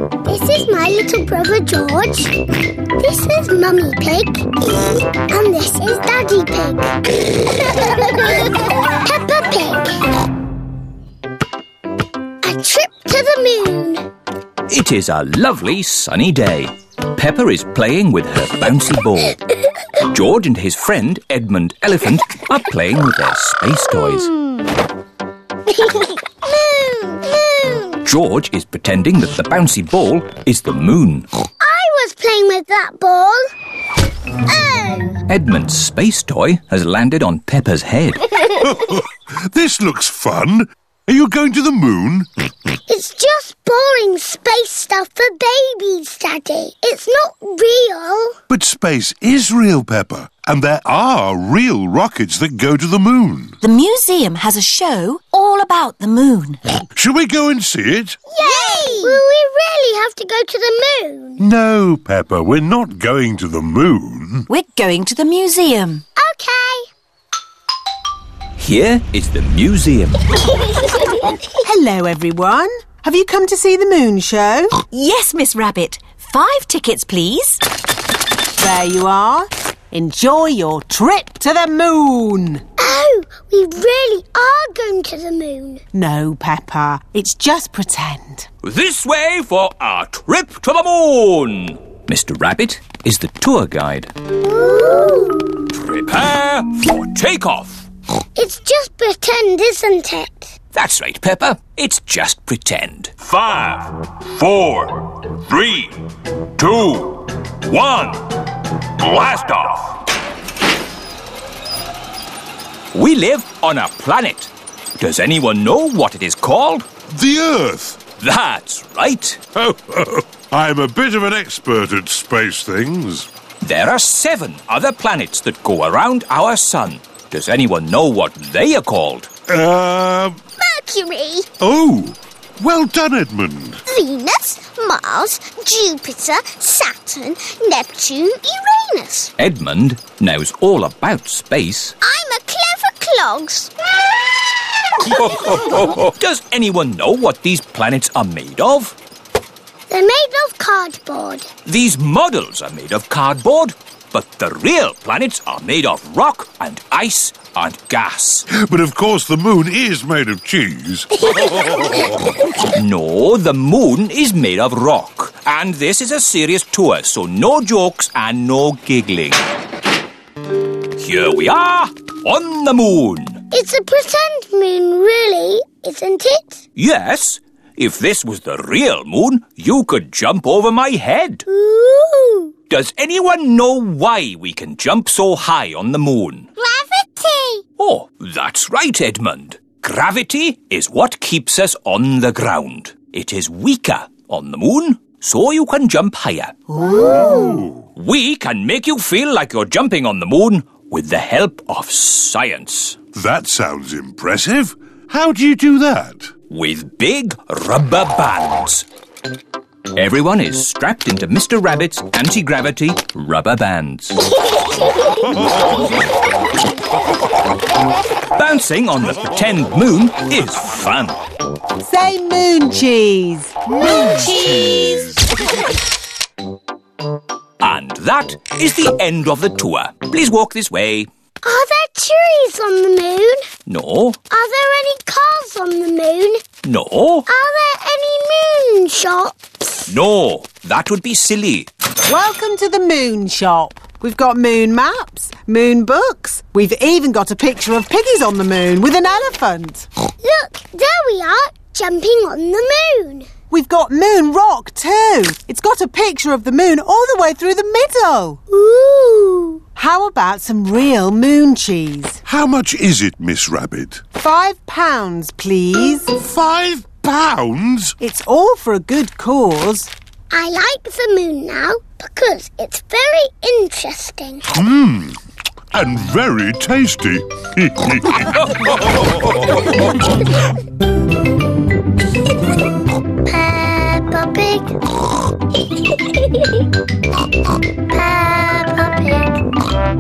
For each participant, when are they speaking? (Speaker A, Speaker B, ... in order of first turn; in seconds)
Speaker A: 0.2-2.4, 3.0-10.1, 12.4-14.1, 25.7-28.0, 31.6-33.4, 34.5-35.2, 42.9-48.4, 58.3-61.4, 66.2-66.9, 82.8-85.8, 94.4-95.6, 98.3-100.5, 130.6-131.4, 133.9-139.3, 142.0-143.7, 149.9-151.5, 173.5-176.6, 181.5-182.5, 186.6-187.6, 196.9-197.6, 231.4-233.5, 234.3-236.4, 237.3-239.8, 250.2-253.3, 258.5-259.6, 270.3-274.4, 283.2-284.8, 287.9-289.4
Speaker B: 14.7-19.4, 20.0-24.3, 28.0-31.3, 35.3-38.4, 68.6-70.5, 88.6-94.1, 95.7-97.8, 100.7-110.0, 112.9-116.9, 118.2-119.4, 123.6-129.3, 139.4-141.9, 145.0-148.9, 151.7-158.5, 162.6-169.5, 171.0-173.4, 176.8-181.4, 182.7-186.5, 187.8-196.8, 197.9-203.0, 206.5-208.8, 209.9-214.2, 218.3-221.2, 227.6-231.1, 233.7-234.2, 236.6-237.3, 239.9-241.7
Speaker C: 38.5-42.3, 48.5-53.6, 57.0-58.2, 61.4-64.5, 117.1-118.0, 119.5-123.3, 129.5-130.4, 131.6-133.8, 158.5-162.0, 197.3-197.5, 203.1-206.3, 262.2-264.0, 266.2-267.9, 274.5-275.2, 275.7-278.5
Speaker D: 53.6-56.6, 64.5-66.0, 74.9-77.6
Speaker E: 71.6-74.8, 78.6-82.6, 85.9-88.5, 221.8-225.1, 242.1-249.9, 253.5-258.4, 259.8-262.2, 264.1-266.1, 268.0-269.9